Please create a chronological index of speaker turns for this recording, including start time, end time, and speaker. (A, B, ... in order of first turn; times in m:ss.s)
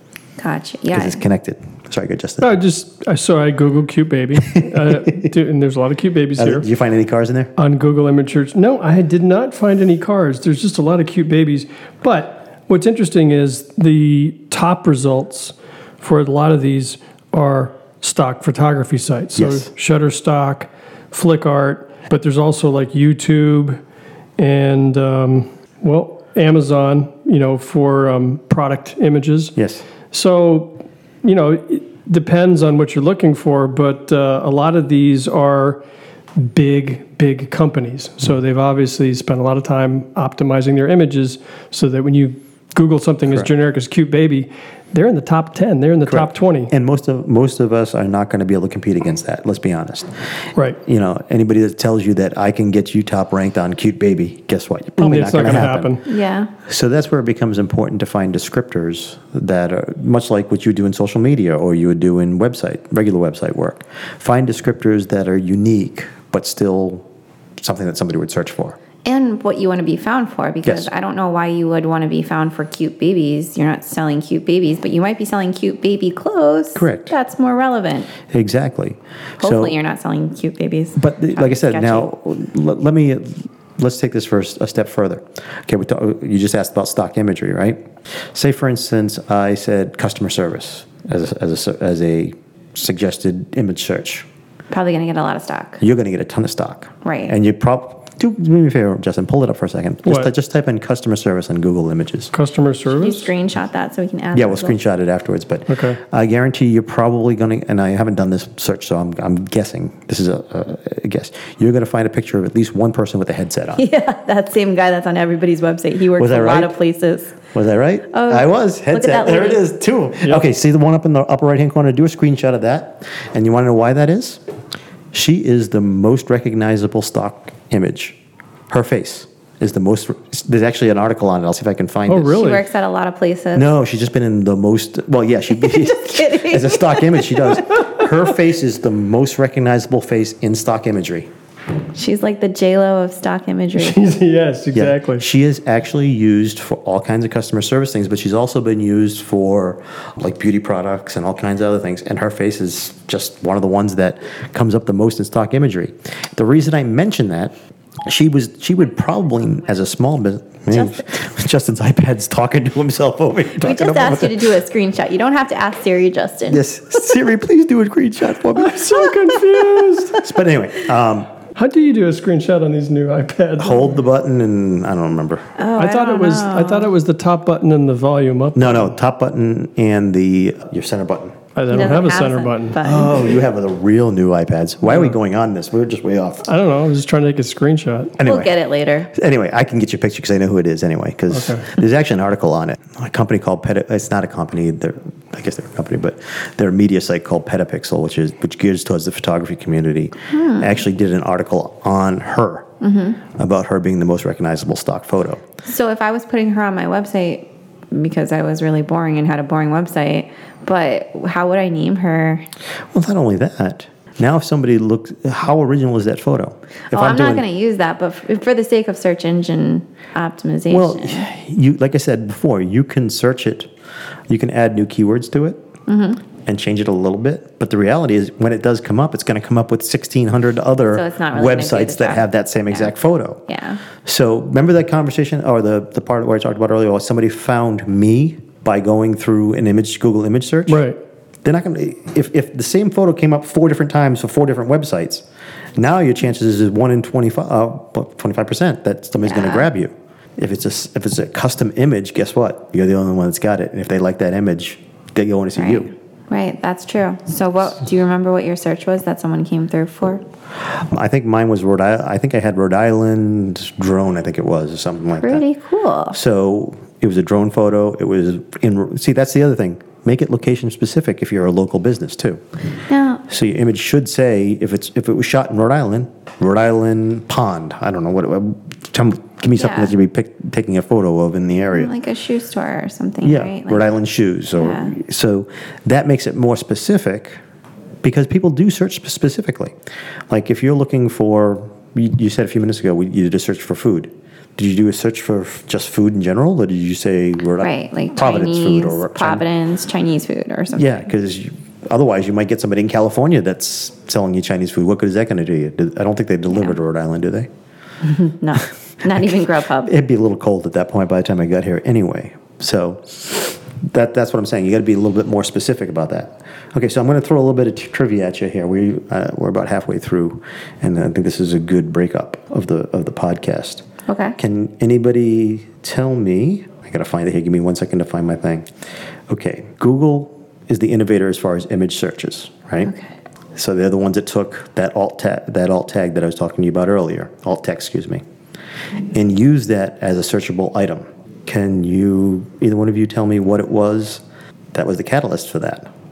0:00.4-0:01.2 A
0:00.9-0:02.5 B
0:02.4-0:06.6 C
0:04.8-0:05.2 B
0:06.4-0:07.5 B
0:07.6-0:23.8 C
0:19.3-0:19.7 B
0:24.4-0:29.5 C
0:29.6-0:29.8 B
0:30.1-0:35.8 C
0:36.4-0:46.7 C
0:46.0-0:50.2 B
0:50.8-0:56.0 B
0:55.0-0:56.0 C
0:56.0-0:56.5 A
0:56.6-1:07.0 B
1:07.6-1:08.8 B
1:09.0-1:18.1 A
1:10.6-1:10.9 B
1:16.7-1:17.1 B
1:18.3-1:19.8 B
1:19.4-1:22.1 A
1:21.0-1:34.3 B
1:34.7-1:35.8 A
1:35.8-1:42.3 B
1:37.0-1:37.3 A
1:40.0-1:40.3 C
1:42.3-1:43.3 C
1:42.9-1:44.8 A
1:44.3-1:53.8 B
1:45.7-1:46.0 C
1:53.8-1:57.4 A
1:56.2-1:56.7 B
1:57.5-2:04.4 B
1:58.1-1:59.6 A
2:05.1-2:08.2 B
2:08.7-2:12.5 B
2:12.1-2:12.7 C
2:12.3-2:13.7 A
2:13.5-2:21.3 B
2:15.6-2:17.9 A
2:21.9-2:24.0 A
2:23.8-2:25.2 C
2:24.7-2:37.5 B
2:38.0-2:44.6 B
2:43.6-2:46.6 A
2:46.5-2:49.1 B
2:48.5-2:50.2 C
2:50.1-2:51.3 B
2:51.5-2:54.0 C
2:53.6-2:55.5 B
2:55.6-2:56.9 A
2:55.8-2:58.9 C
2:58.5-3:01.4 B
3:01.6-3:03.0 C
3:01.7-3:03.5 A
3:02.8-3:06.5 B
3:06.4-3:08.2 C
3:08.2-3:08.5 B
3:08.2-3:09.1 A
3:09.1-3:22.7 B
3:11.3-3:11.7 C
3:20.3-3:20.7 A
3:22.8-3:23.2 A
3:23.3-3:25.4 B
3:25.6-3:32.4 A
3:32.9-3:37.4 B
3:36.9-3:41.2 A
3:40.7-3:43.7 B
3:44.3-3:45.6 B
3:45.9-3:46.2 A
3:46.4-3:53.4 B
3:50.9-3:52.9 A
3:53.5-3:53.8 A
3:54.0-4:00.8 B
4:00.7-4:01.0 C
4:01.4-4:05.2 B
4:05.8-4:15.9 B
4:09.2-4:09.7 A
4:15.6-4:20.2 A
4:20.6-4:25.4 B
4:25.2-4:26.2 A
4:26.1-4:32.4 B
4:32.9-4:33.2 A
4:33.3-4:41.9 B
4:39.6-4:39.9 A
4:41.7-4:43.8 A
4:43.2-4:47.4 B
4:44.6-4:44.9 A
4:48.0-4:49.8 B
4:50.3-4:59.4 B
4:57.6-5:00.9 A
5:00.7-5:07.5 B
5:08.0-5:09.9 A
5:09.8-5:23.8 B
5:24.1-5:24.4 A
5:24.4-5:28.7 B
5:29.3-5:32.9 B
5:33.5-5:38.2 B
5:39.1-5:44.2 B
5:44.7-5:45.9 B